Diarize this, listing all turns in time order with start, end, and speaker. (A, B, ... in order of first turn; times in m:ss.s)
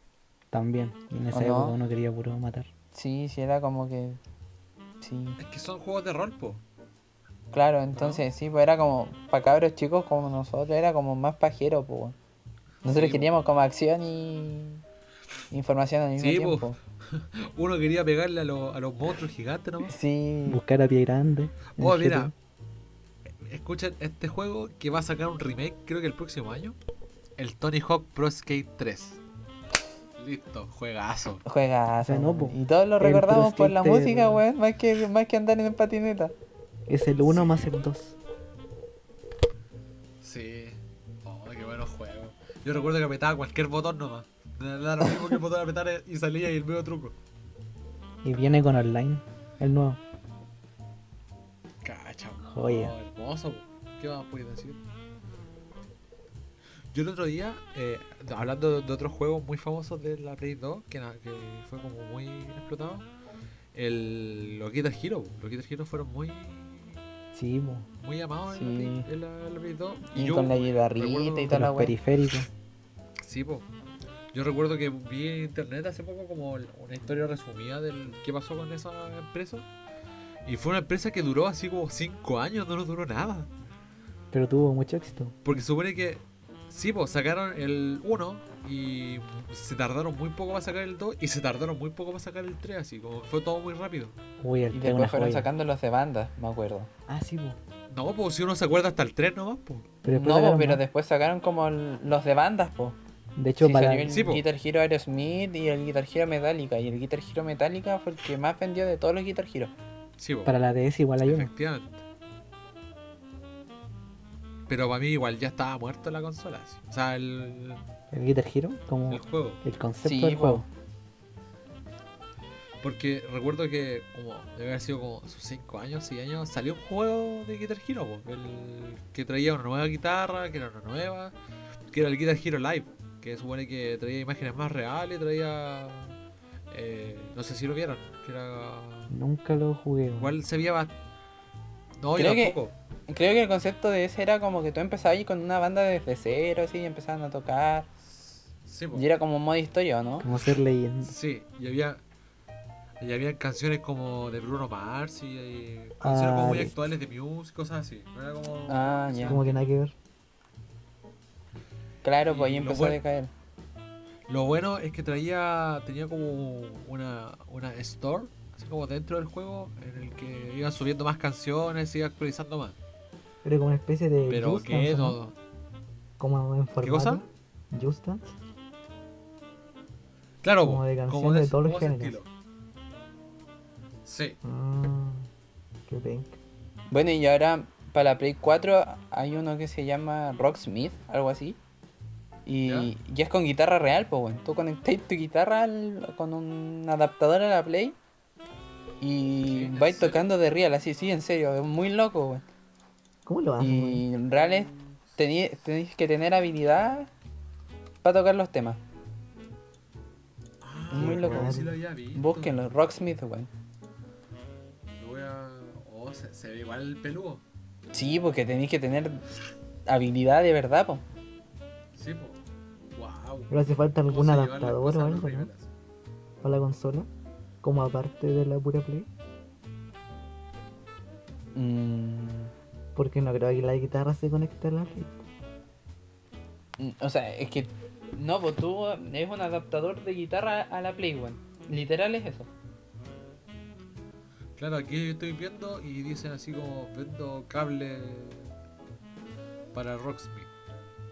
0:00.5-0:02.7 A
0:01.3-0:01.8 B
0:02.9-0:04.2 B
0:05.0-0:05.4 B
0:05.4-0:06.6 C
0:07.5-0:12.2 B
0:08.0-0:08.2 C
0:12.8-0:14.8 B
0:12.9-0:13.3 C
0:15.5-0:16.8 B
0:16.2-0:19.9 C
0:19.8-0:20.6 B
0:20.4-0:22.3 A
0:21.7-0:22.3 C
0:23.4-0:26.8 C
0:27.4-0:29.2 C
0:30.2-0:31.4 C
0:31.4-0:36.3 B
0:32.0-0:34.4 A
0:36.9-0:38.2 A
0:37.2-0:37.6 C
0:40.2-0:47.2 C
0:48.2-0:50.0 A
0:51.8-0:54.8 C
0:52.5-0:52.9 A
0:56.9-1:03.0 C
1:03.7-1:07.0 C
1:07.3-1:07.9 A
1:08.0-1:11.7 C
1:08.5-1:09.0 B
1:10.1-1:11.9 B
1:11.5-1:12.5 A
1:13.2-1:13.7 C
1:14.3-1:19.6 C
1:20.4-1:23.5 C
1:24.3-1:25.4 A
1:25.4-1:34.1 C
1:34.4-1:35.5 A
1:34.7-1:36.9 B
1:37.1-1:37.6 A
1:37.9-1:39.9 C
1:40.0-1:40.8 A
1:40.1-1:43.0 B
1:43.4-1:44.2 A
1:43.6-1:49.7 B
1:44.1-1:44.4 C
1:50.2-1:50.5 C
1:50.4-1:51.5 A
1:51.2-1:52.0 C
1:54.7-1:57.8 C
1:58.1-2:00.6 A
1:59.1-1:59.6 C
2:00.0-2:00.6 B
2:02.8-2:11.3 C
2:11.9-2:16.2 C
2:16.7-2:19.2 C
2:19.1-2:20.4 A
2:20.2-2:20.9 C
2:22.0-2:22.7 C
2:22.1-2:27.9 B
2:28.1-2:29.0 C
2:28.9-2:30.3 B
2:30.2-2:31.1 A
2:31.0-2:32.0 C
2:33.0-2:39.6 C
2:36.0-2:36.7 A
2:38.7-2:39.4 B
2:39.2-2:39.9 A
2:42.0-2:43.3 B
2:42.2-2:43.0 C
2:44.3-2:52.8 C
2:53.4-2:55.2 A
2:54.3-2:55.3 C
2:56.2-2:58.3 A
2:56.8-2:57.2 C
3:00.4-3:02.3 C
3:00.6-3:02.2 A
3:04.0-3:04.4 C
3:04.4-3:05.3 A
3:05.9-3:06.4 A
3:06.9-3:11.6 B
3:12.4-3:18.0 B
3:12.6-3:12.9 C
3:19.0-3:22.4 B
3:19.4-3:20.3 C
3:23.2-3:24.0 A
3:23.6-3:27.1 B
3:24.3-3:25.0 C
3:28.0-3:28.8 B
3:30.6-3:32.5 C
3:30.9-3:31.6 B
3:30.9-3:31.8 A
3:32.1-3:33.5 B
3:35.0-3:37.4 C
3:37.9-3:39.2 B
3:39.8-3:41.0 B
3:41.9-3:42.4 C
3:42.9-3:45.7 C
3:43.5-3:45.5 A
3:46.4-3:47.1 A
3:47.6-3:49.1 A
3:51.5-3:52.5 B
3:52.9-3:55.2 A
3:56.8-4:02.5 B
4:04.6-4:08.5 C
4:09.7-4:10.5 C